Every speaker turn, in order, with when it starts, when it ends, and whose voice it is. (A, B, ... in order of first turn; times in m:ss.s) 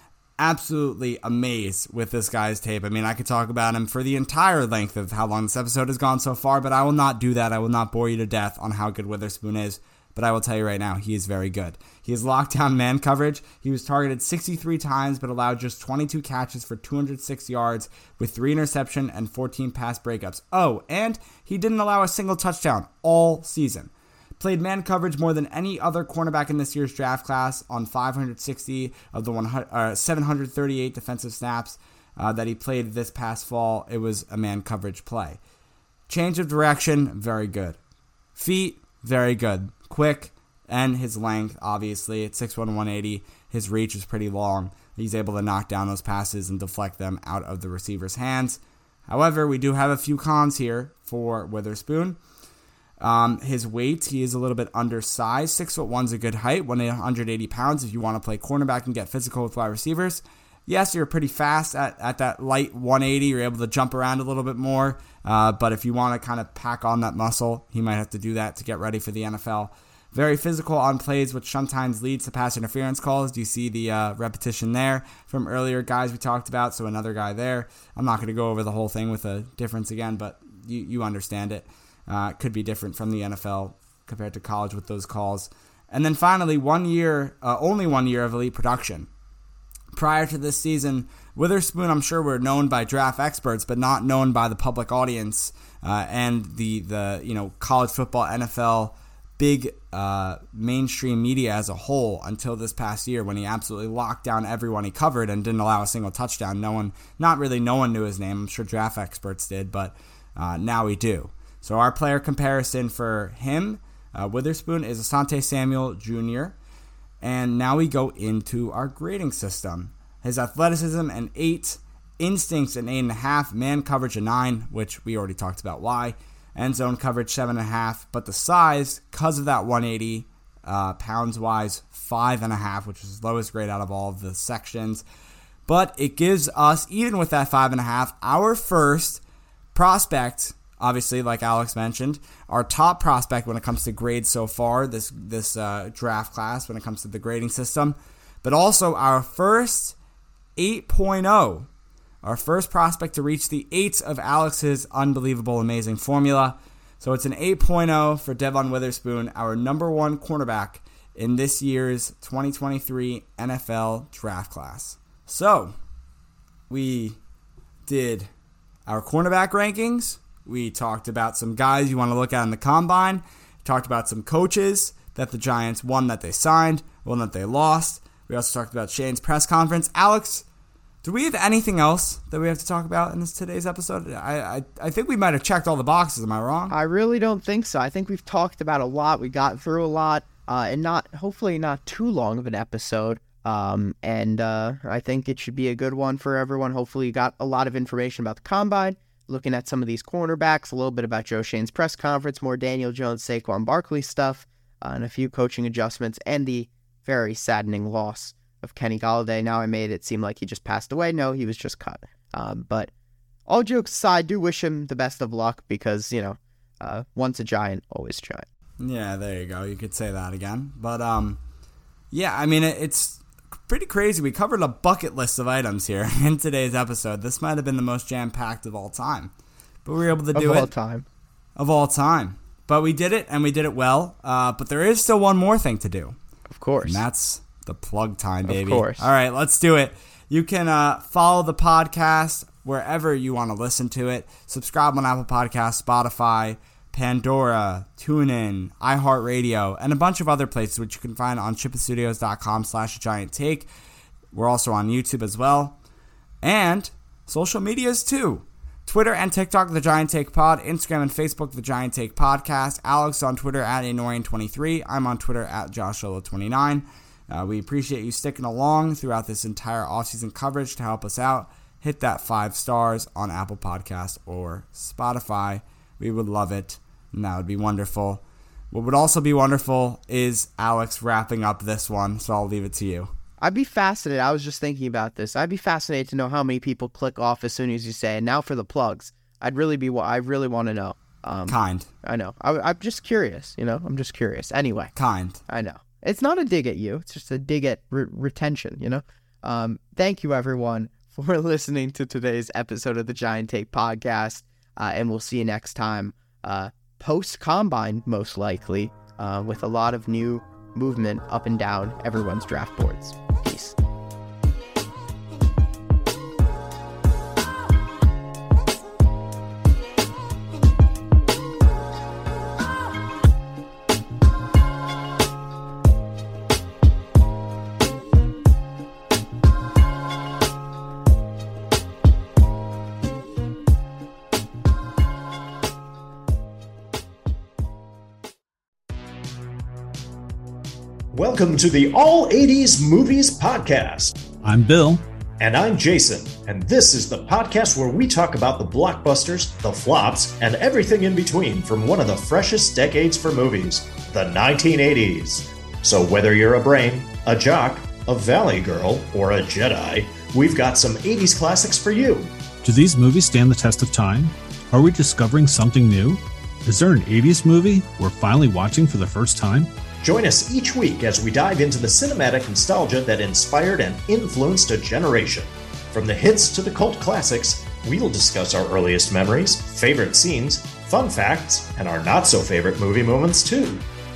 0:00.4-0:35.4 A
0:36.1-0:37.8 A
0:38.4-0:52.2 A
0:53.0-1:29.1 A
1:29.9-1:56.6 A
1:57.2-2:15.0 A
2:15.7-2:19.2 A
2:19.7-2:30.0 A
2:30.6-2:31.7 A
2:32.2-2:45.7 A
2:46.7-2:47.2 A
2:47.9-2:48.3 A
2:48.9-3:00.4 A
3:01.0-3:06.7 A
3:06.7-3:32.9 B
3:33.5-3:38.4 B
3:38.8-3:41.4 A
3:42.1-3:49.3 A
3:49.8-3:50.7 A
3:50.4-3:51.0 B
3:51.6-3:56.2 A
3:56.5-3:57.0 B
3:56.8-4:13.7 A
3:58.4-3:59.1 B
4:14.3-4:15.8 A
4:16.4-4:43.1 A
4:43.4-4:54.9 B
4:51.5-4:51.9 A
4:55.0-4:55.4 A
4:55.5-5:13.7 B
5:41.1-5:44.1 C
5:44.4-5:45.0 D
5:45.4-6:02.3 C
6:02.6-6:09.7 D
6:10.0-6:23.8 C